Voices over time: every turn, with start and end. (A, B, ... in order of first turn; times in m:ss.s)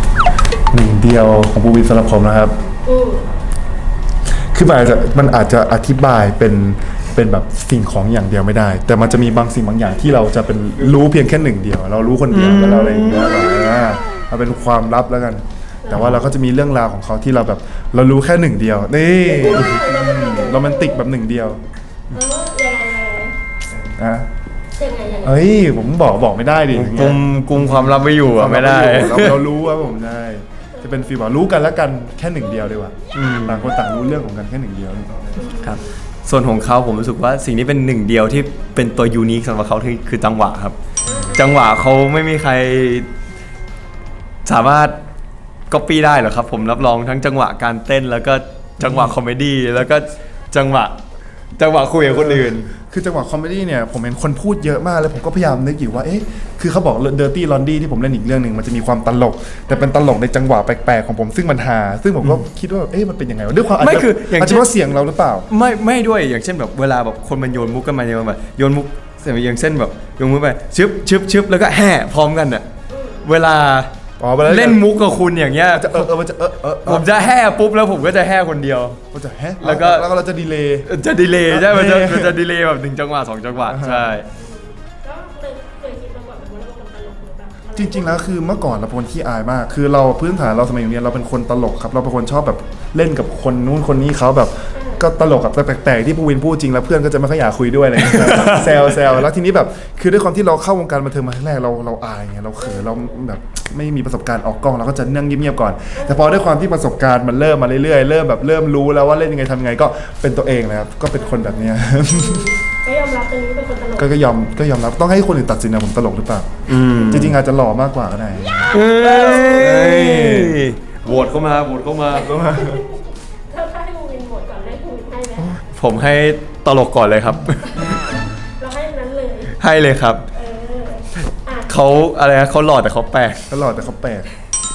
0:00.7-0:02.6 A
0:02.8-0:03.3 B
0:04.5-0:21.6 A
0:12.3-0:13.7 C
0:15.9-0:16.1 B
0:15.9-0:16.2 C
0:19.2-0:21.1 B
0:19.5-0:19.8 C
0:22.1-0:23.4 B
0:23.8-0:24.3 A
0:24.8-0:25.4 B
0:25.2-0:35.5 A
0:26.7-0:29.4 C
0:30.8-0:31.1 B
0:33.1-0:33.7 C
0:35.4-0:35.9 B
0:35.6-0:40.8 C
0:41.0-0:41.5 B
0:41.3-0:43.1 C
0:44.4-0:45.0 C
0:45.7-0:51.0 C
0:48.8-0:49.1 A
0:51.6-0:52.7 C
0:52.0-1:05.5 A
0:59.7-1:00.0 B
1:03.8-1:04.7 C
1:05.5-1:12.7 C
1:12.9-1:13.3 B
1:13.2-1:13.9 C
1:14.2-1:14.8 A
1:14.4-1:16.1 C
1:15.7-1:17.3 A
1:16.8-1:19.0 C
1:19.1-1:22.4 A
1:19.6-1:20.1 C
1:20.9-1:24.3 C
1:23.6-1:24.2 A
1:24.3-1:28.3 B
1:27.8-1:52.4 A
1:34.7-1:35.1 B
1:38.0-1:38.8 C
1:42.6-1:43.2 B
1:46.0-1:46.4 B
1:51.2-1:54.1 B
1:54.0-2:00.6 A
1:56.7-1:57.4 C
1:58.7-2:02.5 C
1:58.8-1:59.8 B
2:01.0-2:05.6 B
2:02.2-2:02.8 A
2:05.4-2:05.6 A
2:05.8-2:08.0 C
2:08.4-2:09.6 B
2:09.6-2:10.2 C
2:10.3-2:11.9 B
2:11.7-2:13.6 C
2:13.5-2:14.3 A